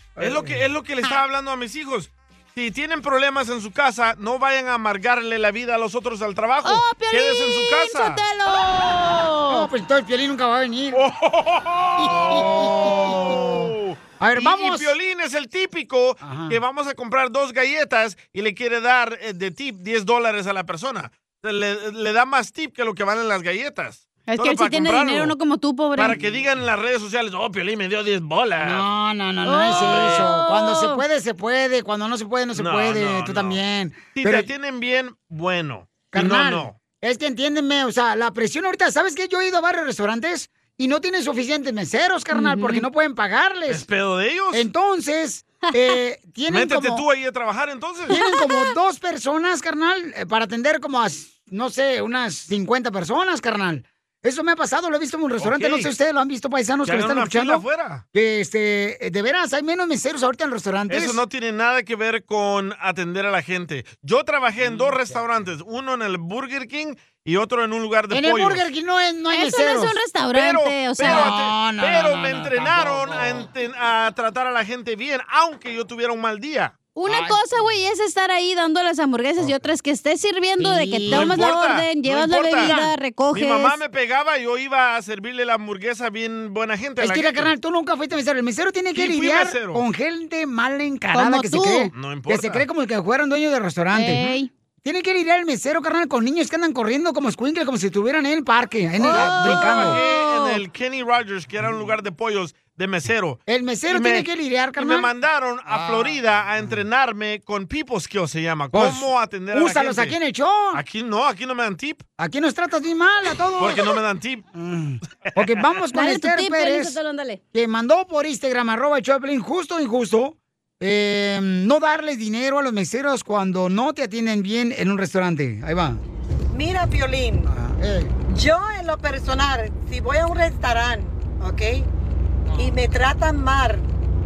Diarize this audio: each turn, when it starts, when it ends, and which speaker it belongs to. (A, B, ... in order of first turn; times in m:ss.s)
0:00.2-0:00.6 A
0:00.2-0:08.2 B
0:06.6-0:09.7 C
0:09.5-0:11.0 A
0:10.9-0:25.4 B
0:12.0-0:14.9 A
0:16.2-0:16.6 A
0:24.3-0:26.2 C
0:26.0-0:28.8 B
0:28.6-0:34.5 A
0:29.4-0:31.0 C
0:29.7-0:30.3 B
0:32.5-0:33.6 B
0:34.1-0:36.8 B
0:36.1-0:43.8 A
0:42.3-0:42.8 C
0:43.7-0:44.6 B
0:44.5-0:47.0 A
0:46.5-0:48.2 B
0:48.1-1:01.2 A
0:48.1-0:48.6 C
0:55.4-0:55.9 B
0:56.8-0:58.0 B
1:00.9-1:08.6 B
1:08.1-1:10.0 A
1:09.3-1:11.3 C
1:10.3-1:16.7 B
1:11.0-1:13.5 A
1:16.9-1:23.8 C
1:17.0-1:17.6 A
1:20.6-1:21.4 A
1:21.1-1:22.8 B
1:22.6-1:22.9 A
1:23.3-1:27.5 B
1:27.0-1:34.2 A
1:28.9-1:29.8 B
1:31.1-1:31.9 C
1:31.9-1:32.6 B
1:33.9-1:34.5 C
1:34.8-1:40.0 A
1:39.0-1:50.2 B
1:39.0-1:40.6 C
1:43.5-1:45.1 A
1:45.7-1:46.7 A
1:48.7-1:50.8 A
1:50.7-1:52.0 B
1:52.2-1:53.9 A
1:53.6-1:54.4 B
1:54.5-1:57.0 A
1:55.9-1:57.4 C
1:57.5-2:06.0 A
2:06.5-2:07.5 D
2:07.5-2:08.1 A
2:08.3-2:11.9 D
2:12.6-2:13.8 D